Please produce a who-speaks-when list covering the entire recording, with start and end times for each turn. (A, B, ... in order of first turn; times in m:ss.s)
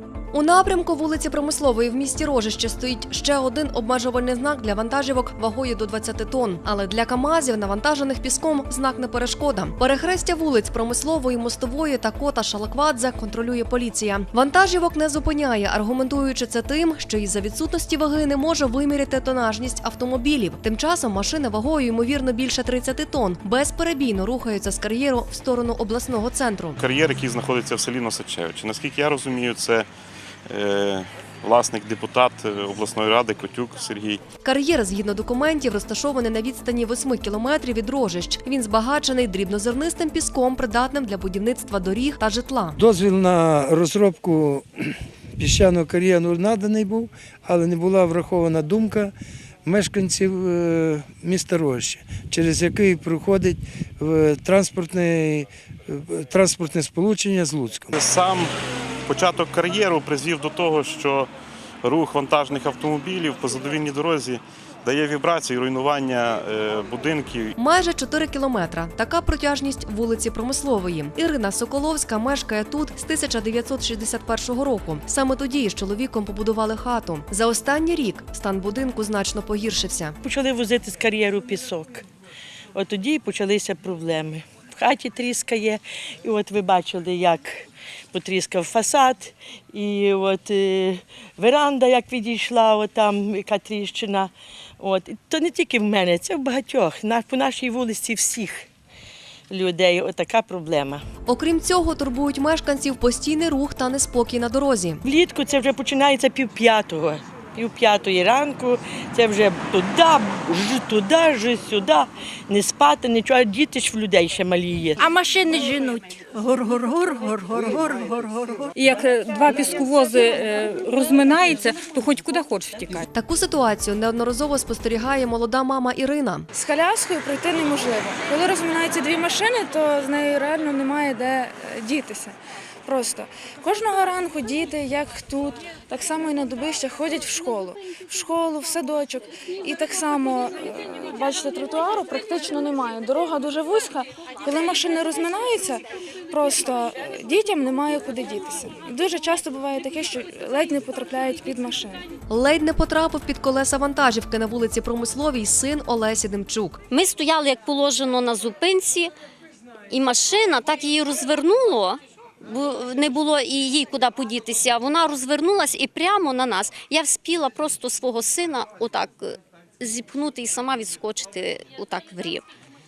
0:00.3-0:26.8 A
0:26.8-0:29.9 B
0:30.5-0:34.2 B
0:34.4-0:42.8 A
0:42.8-0:49.1 C
0:49.6-0:57.9 C
0:57.9-0:58.5 B
0:59.1-1:01.3 B
1:01.8-1:07.5 B
1:07.6-1:20.2 A
1:20.2-1:22.0 D
1:22.7-1:38.7 D
1:39.5-1:41.0 D
1:41.3-1:45.0 A
1:45.0-1:54.9 D
1:55.0-1:56.2 E
1:55.0-1:58.6 F
1:56.9-2:03.0 E
2:03.1-2:06.5 A
2:06.5-2:32.0 G
2:32.3-2:36.8 A
2:36.9-2:39.1 H
2:39.9-2:52.4 H